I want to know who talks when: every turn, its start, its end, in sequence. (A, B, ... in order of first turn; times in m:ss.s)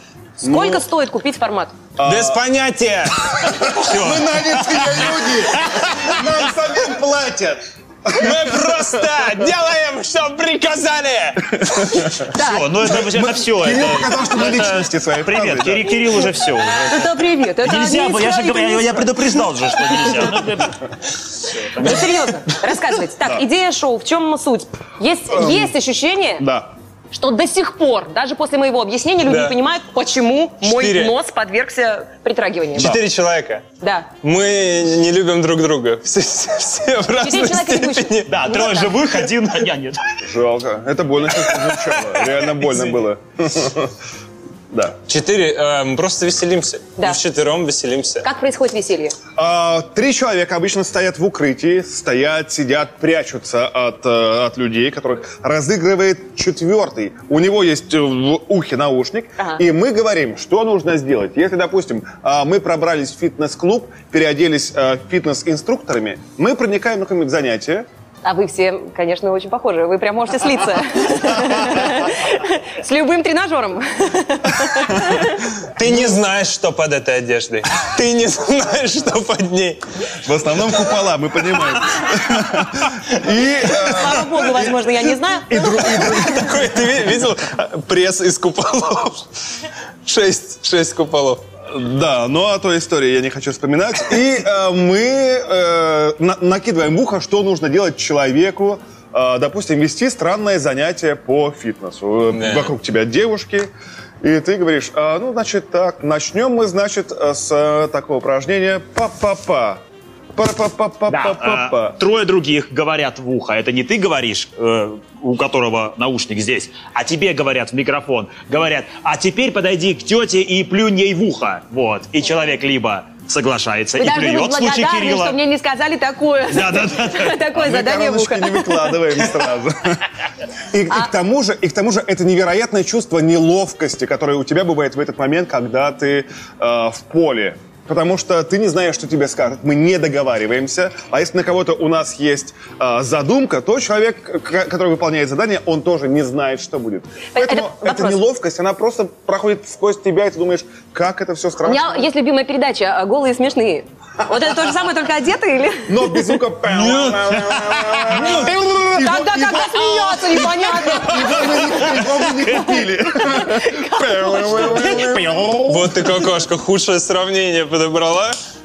0:00.4-0:01.7 A
0:00.4-0:00.8 B
0:02.0-0:02.4 B
0:02.0-0:03.5 C
0:03.4-0:08.7 B
0:03.8-0:06.2 D
0:08.1-0:11.6 C
0:11.6-0:12.2 B
0:12.3-0:20.9 D
0:12.4-0:12.6 A
0:12.8-0:16.1 B
0:16.8-0:19.1 A
0:21.5-0:22.1 D
0:21.8-0:26.5 A
0:25.3-0:25.7 B
0:26.4-0:26.7 B
0:27.1-0:33.0 A
0:29.2-0:29.5 C
0:30.6-0:31.1 C
0:32.7-0:33.6 C
0:33.8-0:34.1 A
0:34.2-0:38.3 C
0:37.2-0:39.2 A
0:38.3-0:40.0 D
0:40.2-0:43.9 B
0:44.7-0:45.0 B
0:45.1-0:48.2 C
0:48.2-0:49.2 A
0:49.4-1:07.9 B
1:08.2-1:15.4 A
1:15.7-1:19.8 C
1:15.8-1:16.2 B
1:20.2-1:24.8 B
1:23.7-1:26.0 A
1:25.5-1:26.7 B
1:25.8-1:29.2 C
1:30.0-1:31.4 C
1:31.7-1:43.7 B
1:42.3-1:42.7 C
1:44.2-1:49.8 B
1:50.3-1:52.0 B
1:51.1-2:05.4 D
2:04.0-2:08.9 A
2:06.5-2:07.5 D
2:07.5-2:10.0 B
2:10.7-2:32.1 B
2:27.3-2:28.2 A
2:31.6-2:36.2 A
2:35.9-2:45.9 B
2:36.7-2:38.6 D
2:38.9-2:45.0 A
2:44.6-2:46.0 D
2:45.6-2:48.4 C